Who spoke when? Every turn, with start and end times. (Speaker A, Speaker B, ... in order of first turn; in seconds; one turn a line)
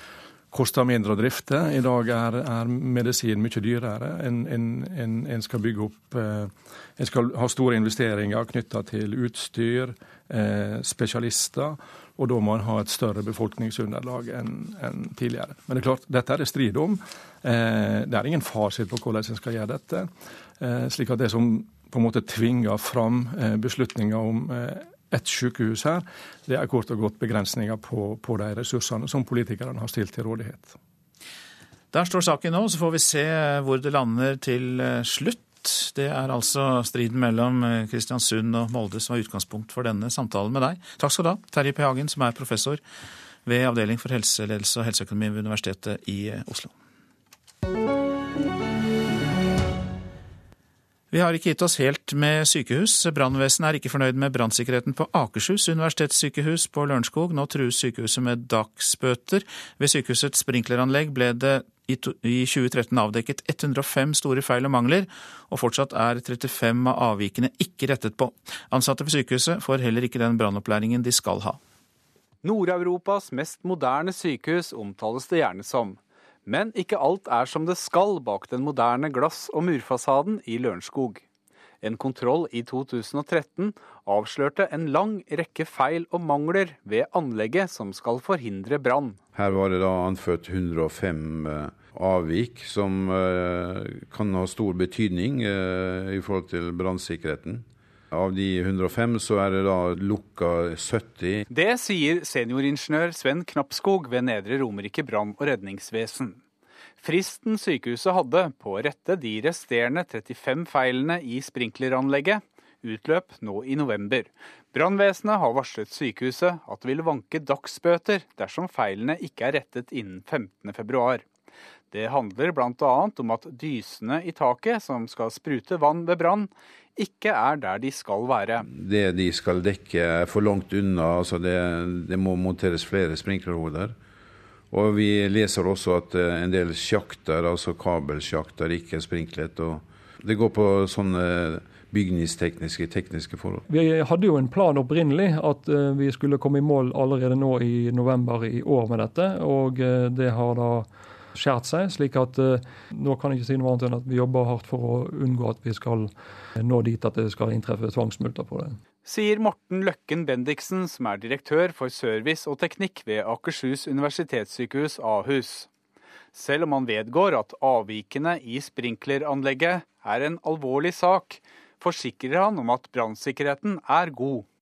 Speaker A: 0.5-30.8
Speaker B: 31.9-42.8
Speaker B: 43.4-46.7
Speaker B: 51.1-71.6
Speaker C: 72.4-81.2
Speaker C: 81.8-89.2
Speaker D: 89.3-101.4
Speaker C: 101.5-106.4
Speaker C: 107.0-121.2
Speaker C: 121.9-128.6
Speaker D: 128.6-133.9
Speaker D: 134.7-143.7
Speaker E: 143.7-158.8
Speaker C: 159.0-165.7
Speaker C: 166.3-174.4